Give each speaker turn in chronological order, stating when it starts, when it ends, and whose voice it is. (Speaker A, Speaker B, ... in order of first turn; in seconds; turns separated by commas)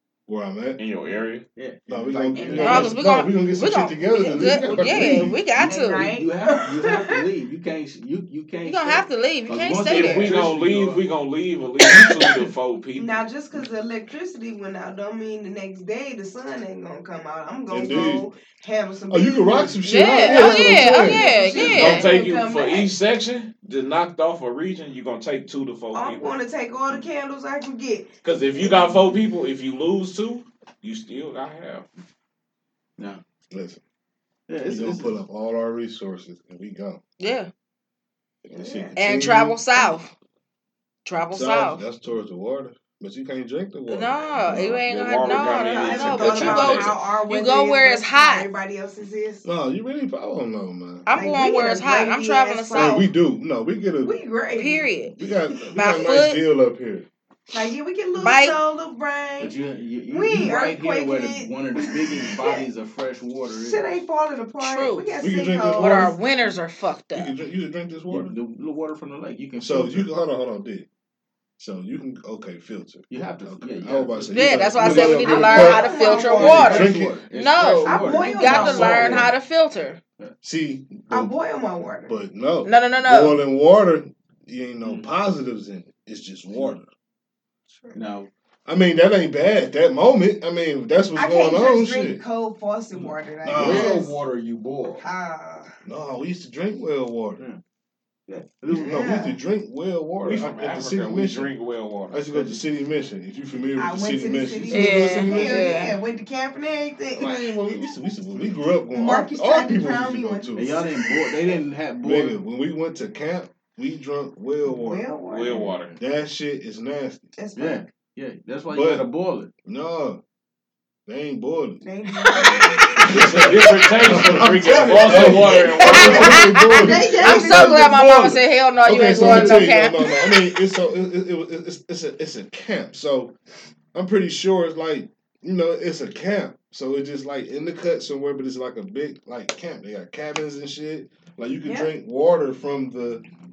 Speaker A: 0.3-0.8, Speaker B: 0.8-1.4, Speaker C: 1.5-3.0, Speaker A: 1.9-5.5, Speaker D: 2.4-2.7, Speaker E: 2.5-6.1, Speaker D: 5.6-7.2, Speaker C: 5.7-11.0, Speaker E: 8.6-10.4, Speaker B: 9.8-13.2, Speaker D: 12.9-22.9, Speaker A: 17.7-18.3, Speaker A: 19.1-21.4, Speaker E: 19.8-22.1, Speaker B: 21.5-26.3, Speaker D: 25.9-28.1, Speaker B: 28.2-31.9, Speaker A: 28.6-29.0, Speaker A: 33.5-33.8, Speaker C: 34.5-35.2, Speaker A: 34.6-37.0, Speaker E: 37.2-37.5, Speaker A: 38.4-39.6, Speaker D: 38.5-39.0, Speaker E: 39.0-40.1, Speaker E: 41.0-41.8, Speaker A: 41.3-44.8, Speaker E: 43.9-48.5, Speaker B: 44.5-47.0, Speaker D: 45.2-49.4, Speaker A: 49.4-51.1, Speaker E: 51.1-53.1, Speaker D: 51.1-53.1, Speaker A: 52.7-54.1, Speaker D: 54.0-55.0, Speaker E: 54.5-55.1, Speaker A: 55.2-57.1, Speaker E: 55.7-56.4, Speaker D: 57.5-62.7, Speaker E: 58.1-58.6, Speaker C: 59.4-63.9, Speaker D: 63.5-66.2, Speaker E: 64.6-65.1, Speaker A: 65.2-66.2, Speaker E: 65.6-67.3, Speaker A: 67.1-68.3, Speaker C: 68.1-70.1, Speaker A: 69.6-70.9, Speaker A: 71.6-77.2, Speaker C: 73.1-79.3, Speaker E: 74.3-80.0, Speaker D: 74.9-77.0, Speaker D: 77.8-79.3, Speaker A: 78.9-79.2, Speaker A: 80.4-81.3, Speaker D: 81.1-82.1, Speaker A: 82.0-86.9, Speaker E: 82.6-83.4, Speaker C: 84.8-85.1, Speaker D: 87.7-88.0, Speaker C: 87.9-88.3, Speaker A: 88.7-92.2, Speaker D: 91.1-94.2, Speaker C: 92.9-95.0, Speaker A: 93.4-94.2, Speaker D: 95.0-95.8, Speaker A: 95.8-97.5, Speaker C: 98.3-99.1, Speaker A: 98.7-101.5, Speaker D: 98.7-99.4, Speaker B: 100.2-102.2, Speaker A: 102.1-105.8, Speaker C: 102.3-102.6, Speaker D: 103.8-107.3, Speaker E: 104.7-105.9, Speaker A: 107.2-110.8, Speaker D: 108.9-110.8, Speaker C: 110.5-112.4, Speaker A: 112.0-115.0, Speaker D: 114.7-115.8, Speaker B: 115.3-115.9, Speaker A: 116.0-117.3, Speaker D: 117.3-117.9, Speaker C: 117.5-119.5, Speaker A: 118.7-119.1, Speaker A: 119.6-120.2, Speaker A: 121.0-121.8, Speaker D: 121.8-123.5, Speaker E: 122.2-122.7, Speaker A: 123.0-133.3, Speaker B: 123.1-126.5, Speaker C: 124.9-125.4, Speaker E: 125.4-130.3, Speaker D: 125.7-128.0, Speaker C: 129.2-129.6, Speaker A: 133.9-143.2, Speaker D: 141.6-141.9